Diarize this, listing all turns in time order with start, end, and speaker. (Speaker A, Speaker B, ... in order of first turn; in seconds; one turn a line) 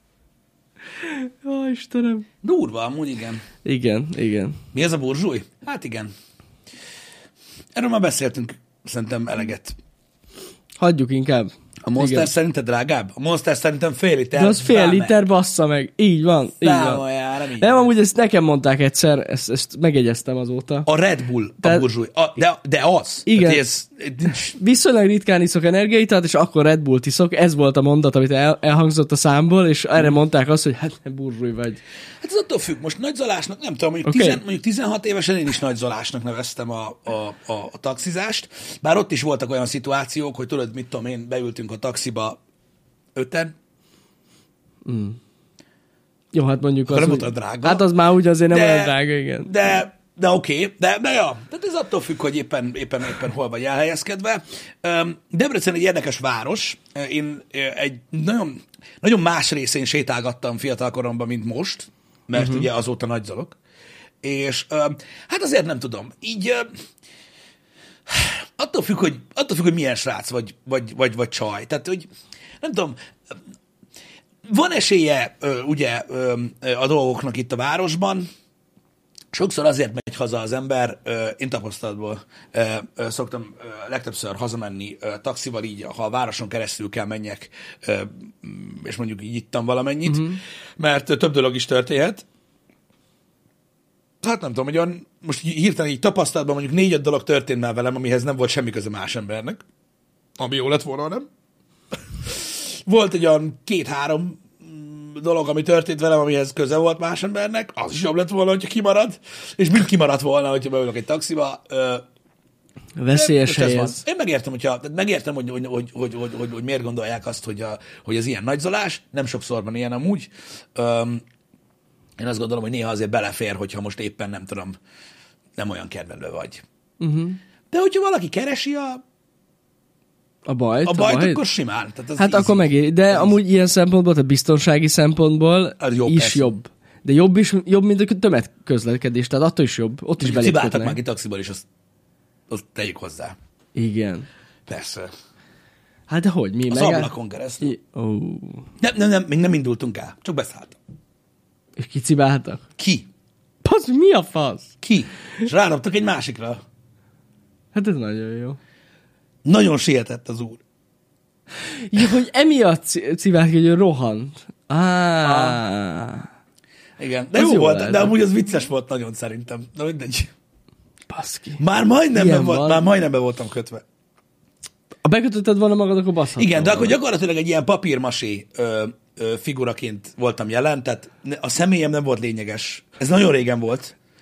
Speaker A: 1.0-2.2
Speaker B: 2.4-3.4
Speaker A: 3.6-4.6
Speaker B: 4.7-6.1
Speaker B: 7.8-9.7
Speaker A: 10.8-12.3
Speaker B: 11.9-15.2
Speaker A: 14.4-17.0
Speaker B: 16.6-17.9
Speaker A: 17.6-20.9
Speaker B: 20.9-24.6
Speaker A: 23.3-23.6
Speaker A: 24.5-31.8
Speaker B: 32.2-42.4
Speaker A: 34.1-34.4
Speaker B: 43.1-43.5
Speaker A: 44.9-45.2
Speaker A: 46.3-49.6
Speaker B: 46.9-47.9
Speaker B: 48.5-63.6
Speaker A: 62.4-62.6
Speaker B: 64.2-66.7
Speaker B: 68.1-72.1
Speaker B: 72.6-73.0
Speaker B: 74.5-78.3
Speaker B: 79.3-92.2
Speaker A: 90.1-90.4
Speaker B: 94.2-99.6
Speaker B: 100.4-101.3
Speaker B: 102.2-112.0
Speaker A: 113.0-114.0
Speaker B: 113.1-121.2
Speaker B: 122.2-124.8
Speaker B: 125.6-126.6
Speaker A: 127.0-127.4
Speaker B: 127.7-129.0
Speaker A: 130.5-131.4
Speaker B: 130.8-133.4
Speaker A: 132.2-141.0
Speaker B: 135.8-136.5
Speaker B: 140.2-141.6
Speaker B: 142.5-143.4
Speaker A: 143.8-144.3
Speaker B: 144.7-145.1
Speaker A: 146.1-148.7
Speaker B: 146.7-147.7
Speaker B: 148.8-150.8
Speaker A: 151.8-152.7
Speaker B: 152.8-153.1
Speaker A: 153.6-154.7
Speaker B: 154.8-156.6
Speaker A: 157.7-158.6
Speaker B: 159.4-160.6
Speaker A: 161.7-166.3
Speaker B: 165.2-165.6
Speaker B: 167.0-170.3
Speaker A: 167.3-168.2
Speaker A: 171.1-171.6
Speaker B: 171.6-173.8
Speaker A: 172.1-172.8
Speaker A: 175.0-177.0
Speaker B: 176.4-183.9